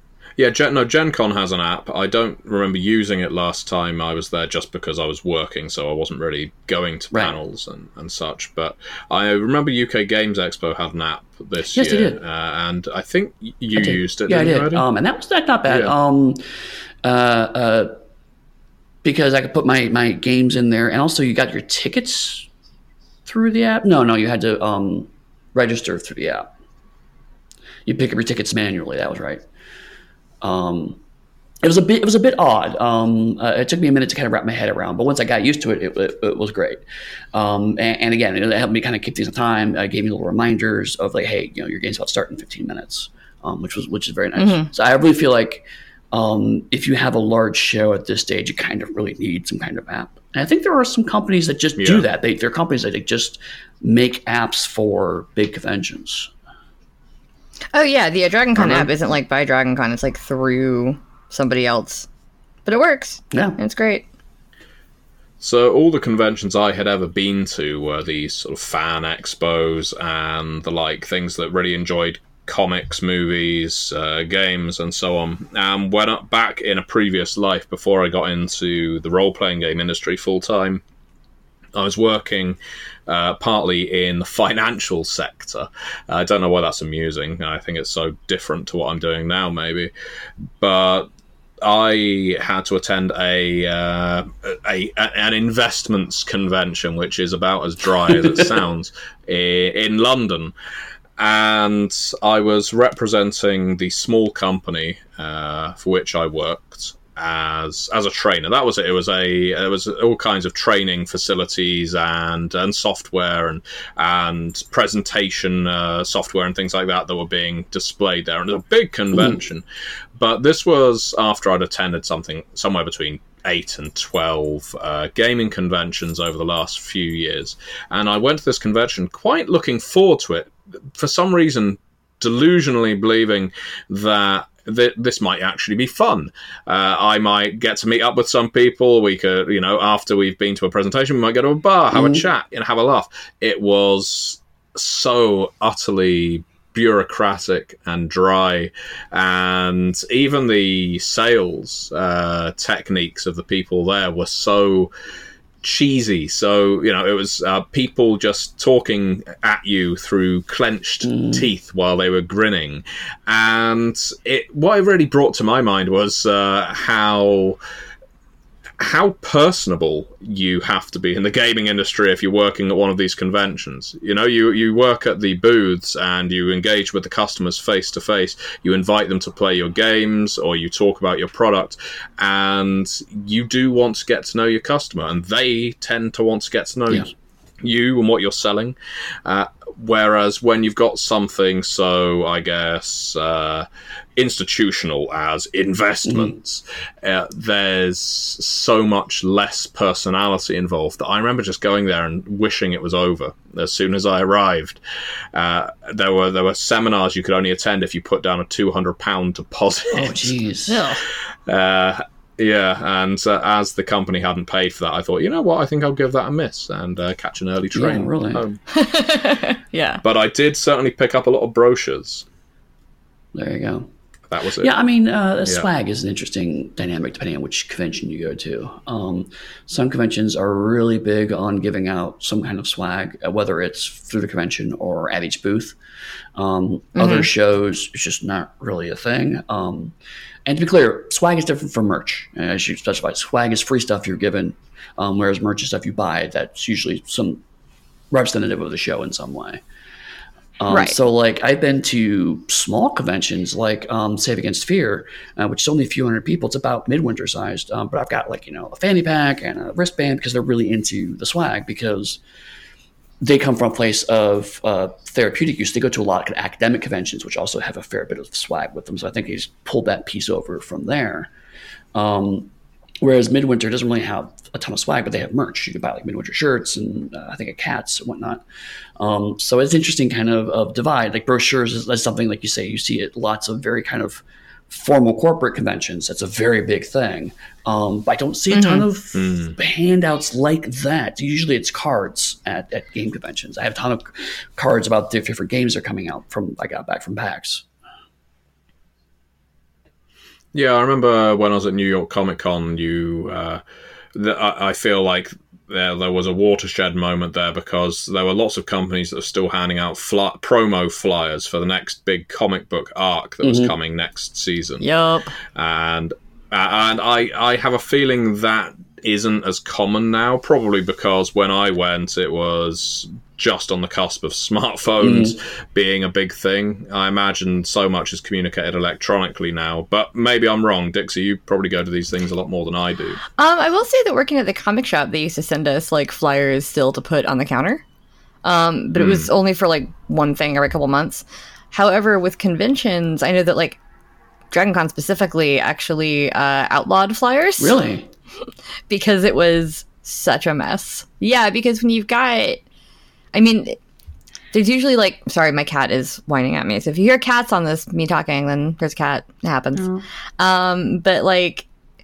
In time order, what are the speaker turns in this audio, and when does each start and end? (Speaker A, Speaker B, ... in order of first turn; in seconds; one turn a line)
Speaker A: 0.4-14.8
Speaker B: 11.7-12.2
Speaker B: 13.7-16.4
Speaker A: 15.7-15.9
Speaker B: 17.0-17.9
Speaker B: 19.0-22.5
Speaker B: 23.2-26.5
Speaker B: 27.9-29.4
Speaker B: 30.4-31.0
Speaker B: 31.6-36.8
Speaker B: 37.3-56.3
Speaker C: 44.4-44.7
Speaker A: 51.8-52.1
Speaker C: 57.7-62.1
Speaker A: 58.6-58.9
Speaker C: 62.6-64.0
Speaker B: 63.3-63.6
Speaker A: 65.4-80.8
Speaker A: 81.8-89.9
Speaker A: 90.6-91.1
Speaker A: 91.6-100.5
Speaker A: 101.2-119.6
Speaker A: 120.2-154.9
Speaker B: 141.9-142.2
Speaker A: 155.6-167.6
Speaker B: 161.1-161.4
Speaker A: 168.8-187.1
Speaker A: 187.6-204.8
Speaker B: 196.1-196.3
Speaker A: 205.3-210.4
Speaker B: 209.9-210.9
Speaker C: 210.7-211.0
Speaker A: 211.5-218.6
Speaker B: 217.7-218.4
Speaker C: 218.7-220.0
Speaker A: 220.0-222.2
Speaker B: 223.3-223.9
Speaker A: 224.3-224.7
Speaker B: 224.6-235.8
Speaker B: 236.3-239.9
Speaker C: 237.0-237.3
Speaker B: 240.4-247.4
Speaker B: 248.1-249.6
Speaker B: 250.6-262.2
Speaker C: 250.7-250.9
Speaker B: 263.2-271.3
Speaker B: 271.9-272.5
Speaker B: 273.0-278.4
Speaker B: 279.0-297.6
Speaker C: 288.5-288.8
Speaker A: 289.1-289.6
Speaker A: 300.5-303.6
Speaker A: 304.1-314.9
Speaker B: 313.4-313.7
Speaker C: 314.8-315.3
Speaker A: 315.5-333.2
Speaker B: 325.0-325.3
Speaker C: 333.4-337.8
Speaker C: 338.4-343.8
Speaker A: 339.0-339.3
Speaker C: 344.5-347.8
Speaker B: 347.6-348.1
Speaker C: 348.9-352.6
Speaker C: 353.3-353.8
Speaker C: 354.5-361.7
Speaker B: 359.7-360.0